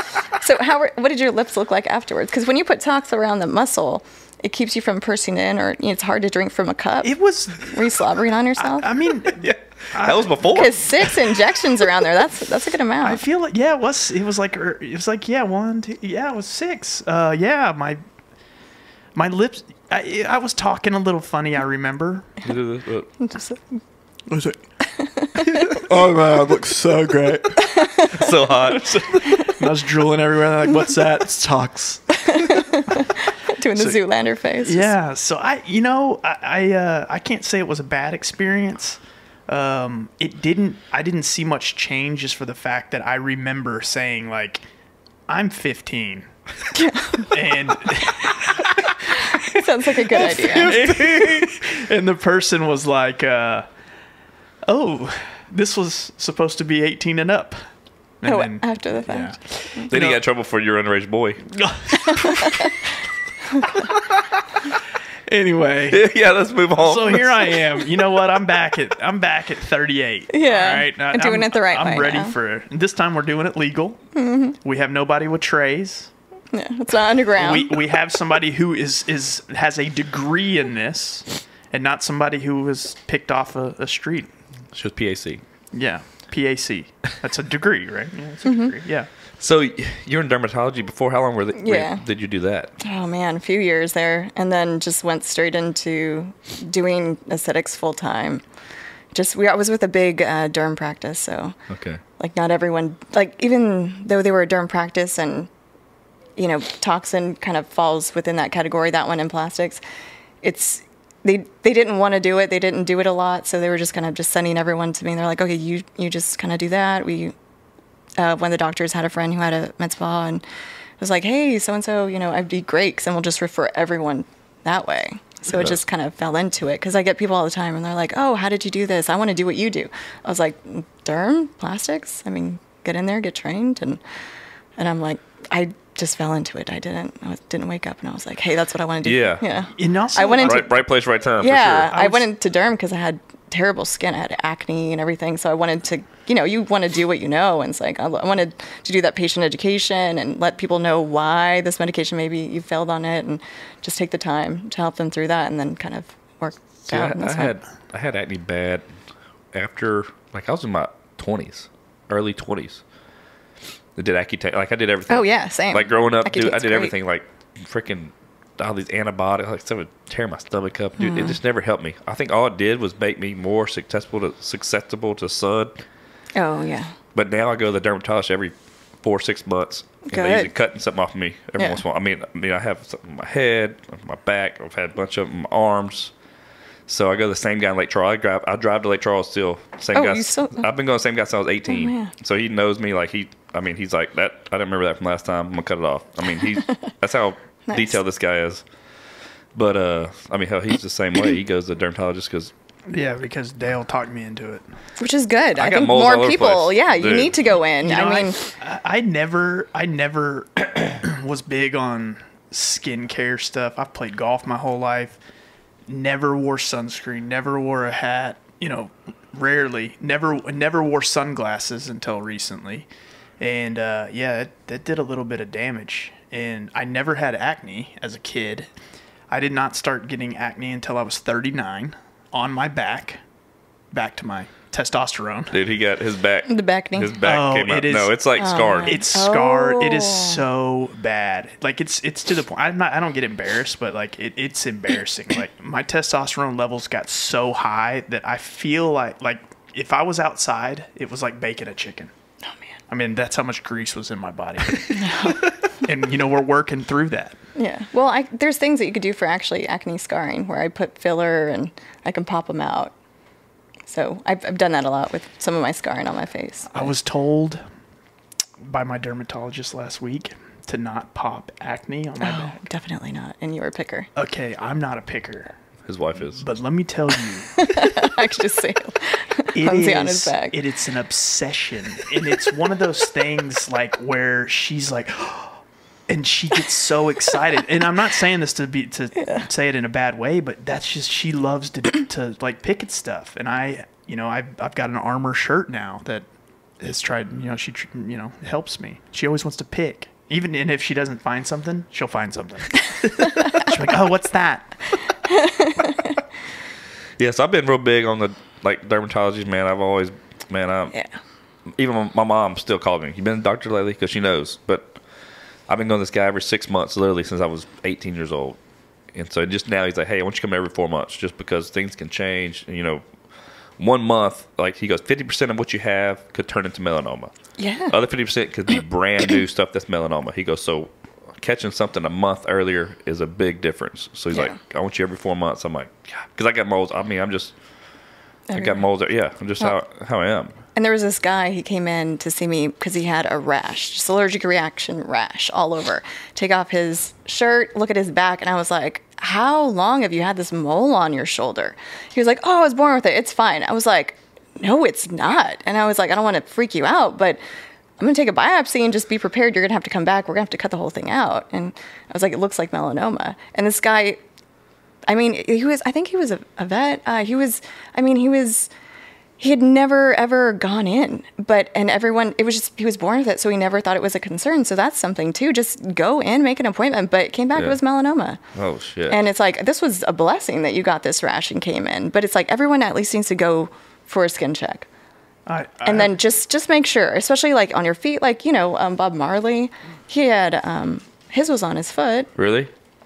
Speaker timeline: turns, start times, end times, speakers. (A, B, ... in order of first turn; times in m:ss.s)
0:00.4-0:08.9 A
0:07.0-0:08.0 B
0:08.6-0:11.2 B
0:09.3-0:10.8 C
0:10.5-0:13.2 A
0:13.0-0:18.0 B
0:19.1-0:22.3 B
0:22.4-0:23.1 C
0:23.2-0:23.7 A
0:24.3-0:24.6 B
0:24.8-0:25.7 A
0:25.7-0:28.1 B
0:25.8-0:26.9 C
0:28.1-0:29.5 C
0:28.6-0:32.4 B
0:32.2-0:34.9 A
0:34.6-0:44.6 B
0:45.3-0:46.3 B
0:46.7-0:47.3 A
0:47.3-0:53.6 B
0:49.3-0:50.8 A
0:50.4-0:51.5 C
0:54.6-1:00.2 B
0:58.2-0:59.9 A
0:59.9-1:01.5 C
1:01.5-1:02.6 B
1:05.3-1:06.1 B
1:05.9-1:07.5 C
1:06.7-1:14.0 B
1:10.3-1:12.3 A
1:14.2-1:14.6 A
1:14.6-1:16.1 B
1:16.5-1:17.7 A
1:17.4-1:24.3 B
1:24.7-1:25.4 C
1:25.7-1:29.1 B
1:28.4-1:28.7 A
1:29.4-1:32.7 C
1:31.6-1:32.0 A
1:32.8-1:38.4 A
1:39.1-1:41.6 A
1:41.7-1:42.0 C
1:42.2-1:45.5 A
1:46.4-1:49.8 A
1:50.4-1:57.3 A
1:58.2-2:00.4 A
2:01.0-2:14.0 A
2:14.8-2:20.8 A
2:19.0-2:19.4 C
2:19.8-2:20.7 B
2:20.4-2:21.9 C
2:21.4-2:37.5 A
2:21.9-2:22.2 B
2:36.9-2:38.8 C
2:39.5-2:42.8 C
2:44.0-2:55.8 C
2:45.1-2:46.9 A
2:51.0-2:51.4 A
2:56.3-2:56.9 A
2:57.1-3:06.1 C
3:00.1-3:00.5 A
3:06.9-3:18.6 C
3:09.9-3:10.7 A
3:11.7-3:12.1 A
3:17.7-3:18.0 A
3:19.5-3:22.5 C
3:22.9-3:24.6 B
3:25.0-3:28.5 A
3:25.6-3:27.5 C
3:27.8-3:35.2 B
3:35.9-3:42.9 B
3:43.4-3:48.7 B
3:49.3-3:53.2 B
3:53.9-3:55.6 B
3:55.5-3:59.0 C
3:56.5-3:57.2 A
3:57.2-3:58.2 B
3:58.4-4:00.4 A
3:58.8-4:12.1 B
4:12.9-4:15.1 B
4:14.9-4:15.4 A
4:15.8-4:17.4 B
4:17.6-4:22.9 A
4:23.9-4:26.9 A
4:26.7-4:27.6 B
4:28.6-4:32.6 B
4:32.2-4:34.1 A
4:34.2-4:35.5 B
4:35.8-4:36.4 C
4:36.4-4:37.6 B
4:37.6-4:40.6 A
4:39.5-4:56.2 B
4:56.8-5:04.8 B
5:05.3-5:06.1 A
5:07.2-5:10.9 C
5:11.8-5:14.9 C
5:15.7-5:18.6 C
5:19.1-5:23.0 C
5:23.8-5:27.3 C
5:27.6-5:27.9 A
5:27.9-5:37.5 C
5:38.5-5:38.8 A
5:38.5-5:40.5 C
5:40.7-5:57.4 A
5:58.0-6:04.2 A
6:05.1-6:08.7 A
6:09.4-6:18.4 A
6:18.5-6:19.2 C
6:19.1-6:24.8 A
6:25.5-6:26.2 B
6:25.8-6:32.3 A
6:32.4-6:32.7 C